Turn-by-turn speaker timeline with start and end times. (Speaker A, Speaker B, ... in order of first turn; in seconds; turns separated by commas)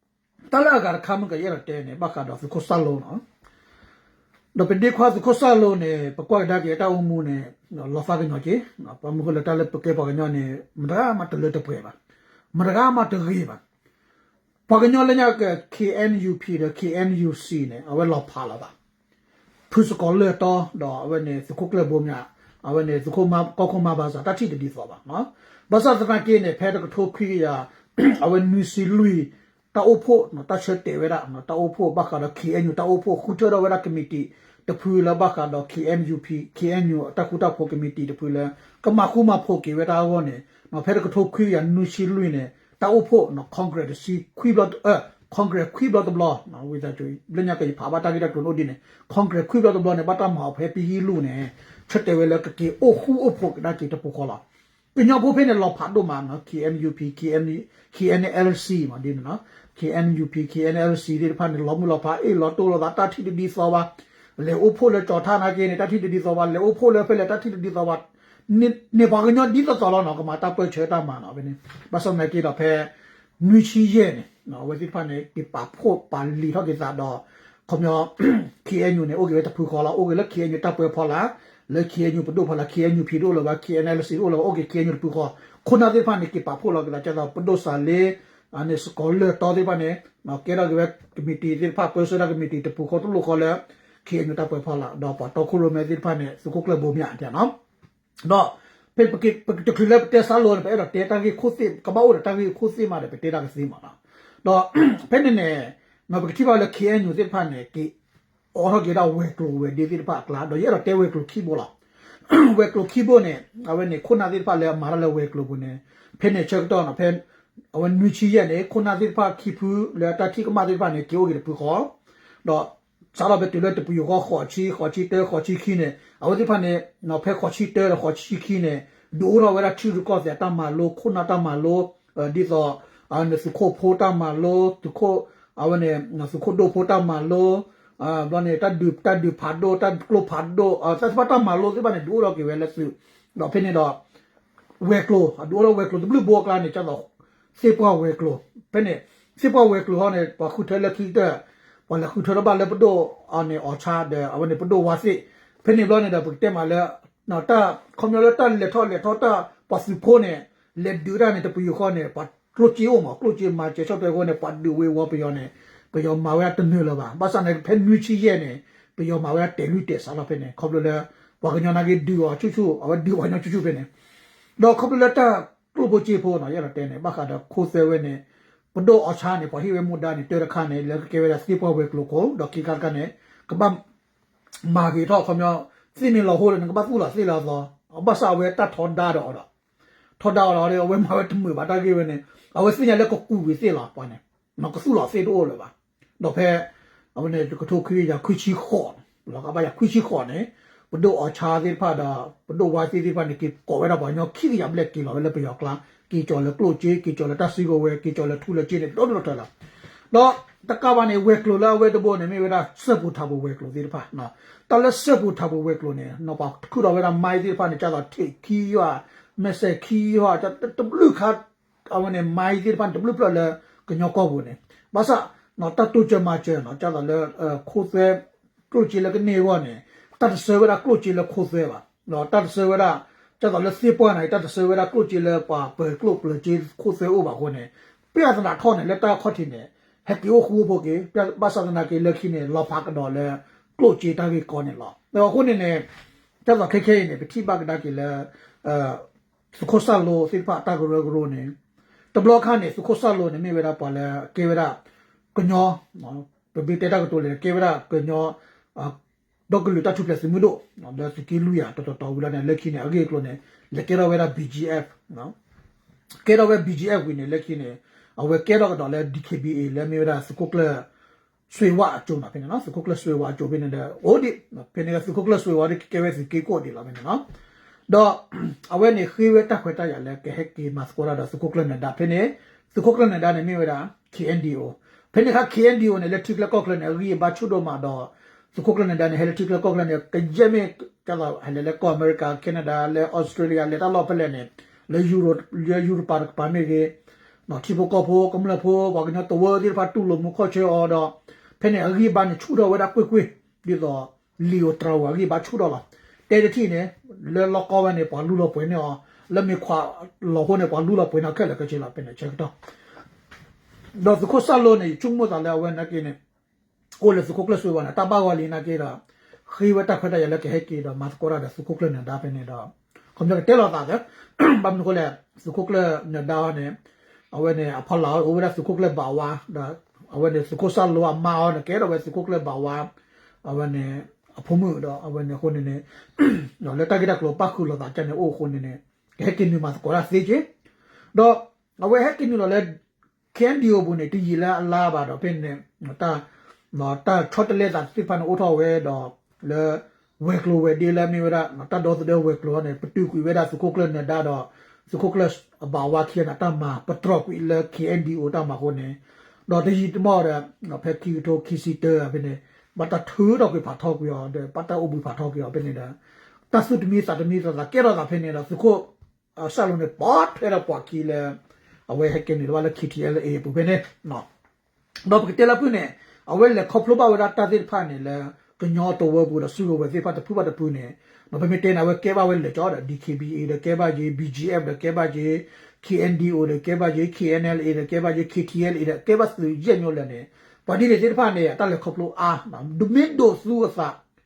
Speaker A: 0.5-3.2, Speaker A: 4.5-11.9, Speaker A: 12.5-13.6, Speaker A: 14.7-18.7, Speaker A: 19.7-54.4, Speaker A: 54.9-97.5, Speaker A: 98.2-107.9, Speaker A: 108.5-111.7, Speaker A: 112.3-117.2, Speaker A: 117.7-121.9, Speaker A: 122.4-144.0, Speaker A: 144.8-173.9, Speaker A: 174.6-178.2, Speaker A: 178.7-183.8, Speaker A: 184.7-189.5, Speaker A: 190.2-209.5, Speaker A: 210.1-245.8, Speaker A: 246.4-251.5, Speaker A: 252.1-254.8, Speaker A: 255.3-258.9, Speaker A: 259.5-265.3, Speaker A: 266.2-270.9, Speaker A: 271.5-277.2, Speaker A: 277.9-296.9, Speaker A: 297.5-312.5, Speaker A: 313.9-316.1, Speaker A: 317.0-326.7, Speaker A: 327.3-332.9, Speaker A: 333.4-340.4, Speaker A: 341.1-342.7, Speaker A: 343.3-365.9, Speaker A: 366.5-371.4, Speaker A: 371.9-374.3, Speaker A: 375.1-394.0